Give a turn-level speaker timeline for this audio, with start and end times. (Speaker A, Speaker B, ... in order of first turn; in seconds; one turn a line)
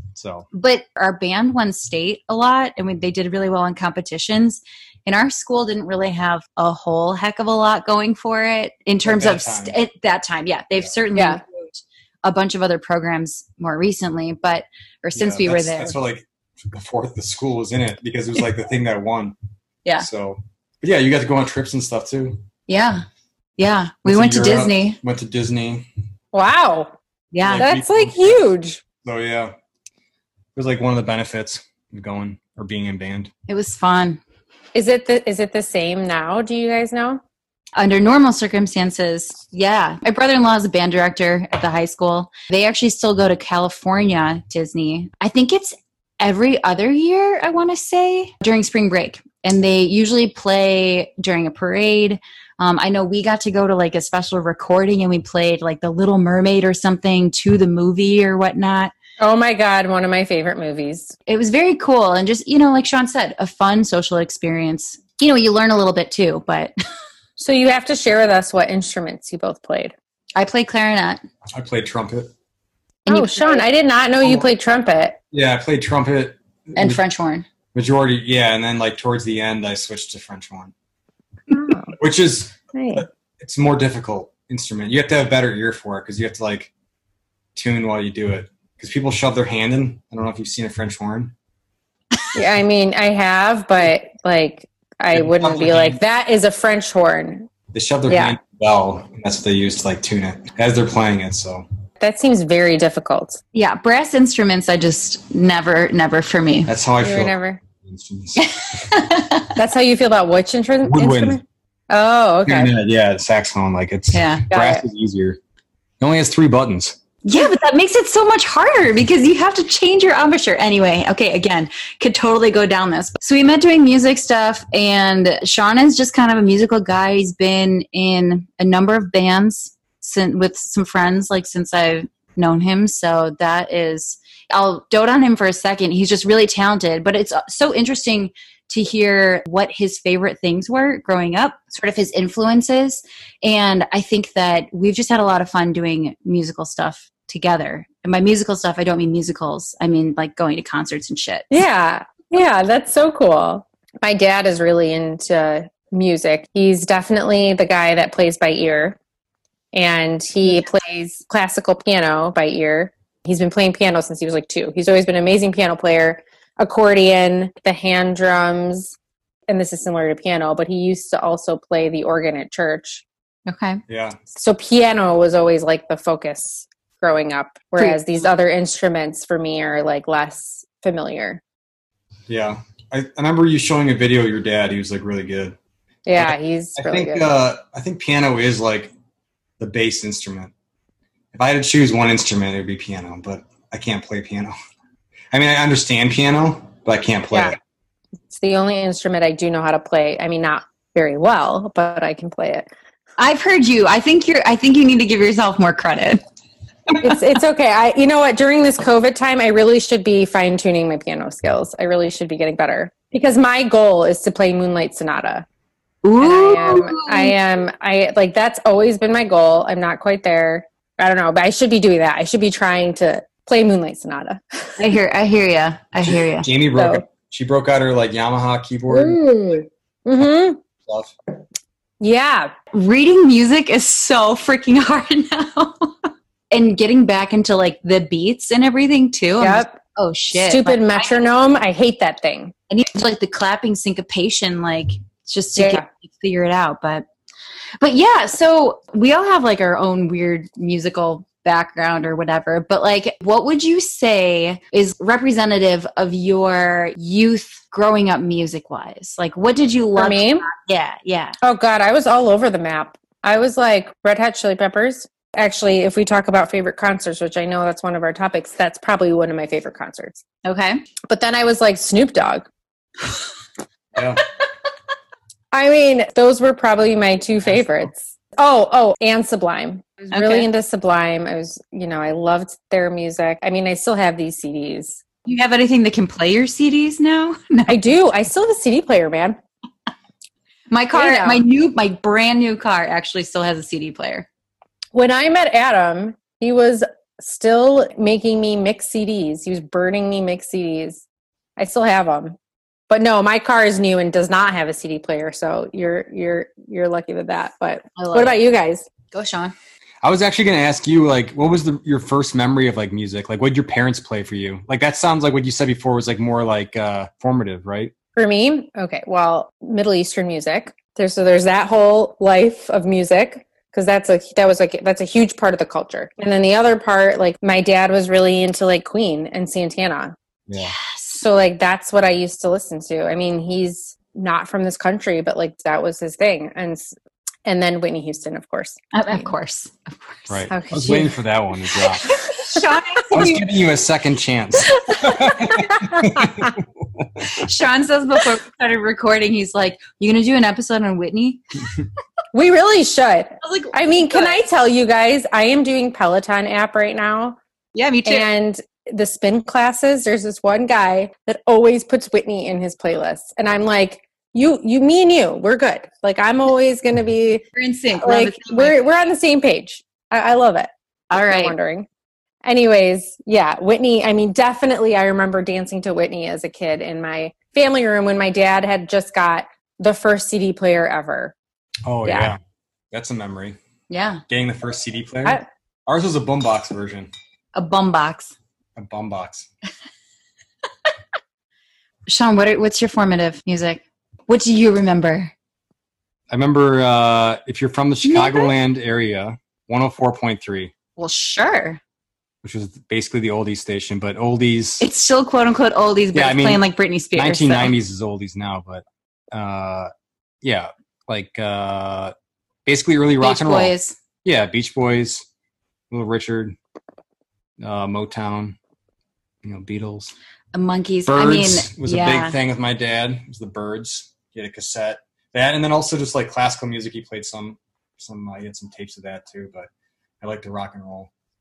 Speaker A: 0.1-0.5
Speaker B: 0.5-15.9
Speaker A: 9.0-9.8
Speaker C: 11.1-11.4
Speaker A: 15.2-19.4
Speaker A: 20.0-22.4
Speaker B: 22.7-23.0
Speaker B: 23.6-25.0
Speaker A: 24.0-25.9
Speaker C: 26.3-26.9
Speaker B: 27.3-27.7
Speaker A: 27.4-28.4
Speaker C: 27.5-28.8
Speaker A: 29.0-29.5
Speaker A: 30.5-33.3
Speaker B: 33.5-34.2
Speaker C: 34.7-37.2
Speaker B: 37.8-58.9
Speaker C: 59.2-61.1
Speaker B: 61.3-66.7
Speaker C: 67.4-69.9
Speaker B: 70.3-71.2
Speaker A: 71.5-72.3
Speaker B: 73.0-73.7
Speaker C: 73.1-75.2
Speaker A: 75.3-77.0
Speaker B: 76.8-77.5
Speaker A: 77.7-80.7
Speaker C: 81.5-81.9
Speaker A: 82.0-86.7
Speaker C: 82.7-83.0
Speaker A: 87.5-91.3
Speaker C: 92.3-97.5
Speaker A: 95.1-96.0
Speaker A: 97.7-101.6
Speaker C: 98.1-98.3
Speaker C: 102.0-103.4
Speaker B: 103.5-106.7
Speaker A: 106.7-108.8
Speaker C: 107.0-107.6
Speaker B: 108.3-109.5
Speaker C: 109.5-112.7
Speaker A: 110.8-111.4
Speaker A: 112.4-115.4
Speaker B: 114.1-114.5
Speaker C: 114.5-114.8
Speaker A: 116.0-117.0
Speaker B: 117.2-151.5
Speaker C: 151.5-159.0
Speaker C: 159.7-168.9
Speaker C: 169.5-173.0
Speaker B: 173.5-173.8
Speaker A: 173.9-174.2
Speaker C: 174.3-181.4
Speaker A: 182.3-185.6
Speaker C: 186.1-187.3
Speaker A: 186.2-188.9
Speaker A: 189.6-190.5
Speaker A: 191.3-194.5
Speaker A: 195.3-197.6
Speaker C: 198.3-202.7
Speaker B: 203.2-206.2
Speaker C: 207.0-215.4
Speaker B: 216.0-217.3
Speaker C: 216.2-224.8
Speaker B: 224.8-226.5
Speaker A: 226.1-229.2
Speaker C: 226.7-227.0
Speaker C: 228.9-230.6
Speaker A: 230.8-231.1
Speaker C: 232.0-232.5
Speaker B: 232.7-241.1
Speaker C: 239.4-239.8
Speaker C: 240.3-242.5
Speaker B: 242.7-247.1
Speaker C: 245.6-245.8
Speaker B: 247.8-261.4
Speaker C: 259.9-260.5
Speaker C: 261.4-270.2
Speaker B: 270.4-270.8
Speaker C: 271.1-272.5
Speaker A: 273.9-274.2
Speaker C: 275.5-285.0
Speaker B: 280.1-280.5
Speaker B: 285.2-287.8
Speaker C: 287.7-289.4
Speaker B: 290.7-294.3
Speaker C: 290.9-291.4
Speaker C: 294.9-301.0
Speaker C: 301.6-302.4
Speaker C: 302.9-308.9
Speaker B: 308.0-308.4
Speaker B: 309.1-309.5
Speaker A: 310.0-317.9
Speaker C: 318.1-330.1
Speaker A: 330.5-330.7
Speaker B: 330.6-331.2
Speaker C: 331.1-336.9
Speaker C: 337.4-338.8
Speaker B: 338.9-340.4
Speaker A: 340.3-342.1
Speaker C: 340.5-341.1
Speaker B: 342.0-343.5
Speaker A: 343.1-347.2
Speaker B: 347.2-351.4
Speaker C: 352.3-357.4
Speaker B: 353.4-354.4
Speaker B: 357.7-358.3
Speaker C: 358.1-367.4
Speaker B: 367.5-368.9
Speaker C: 368.0-371.9
Speaker B: 371.1-371.5
Speaker C: 372.4-381.3
Speaker A: 381.9-382.4
Speaker C: 382.1-382.3
Speaker A: 382.9-383.6
Speaker B: 383.9-384.2
Speaker A: 384.3-387.1
Speaker B: 387.5-388.3
Speaker A: 388.8-389.5
Speaker B: 392.1-395.3
Speaker A: 396.3-400.7
Speaker B: 398.0-398.5
Speaker B: 401.0-401.8
Speaker A: 402.4-404.8
Speaker B: 404.8-407.7
Speaker A: 406.1-406.6
Speaker A: 407.1-409.9
Speaker A: 410.4-412.1
Speaker A: 412.6-415.2
Speaker B: 413.2-413.9
Speaker A: 415.9-416.6
Speaker A: 417.6-418.6
Speaker A: 419.4-420.1
Speaker B: 420.5-422.4
Speaker A: 421.1-429.7
Speaker A: 430.2-431.1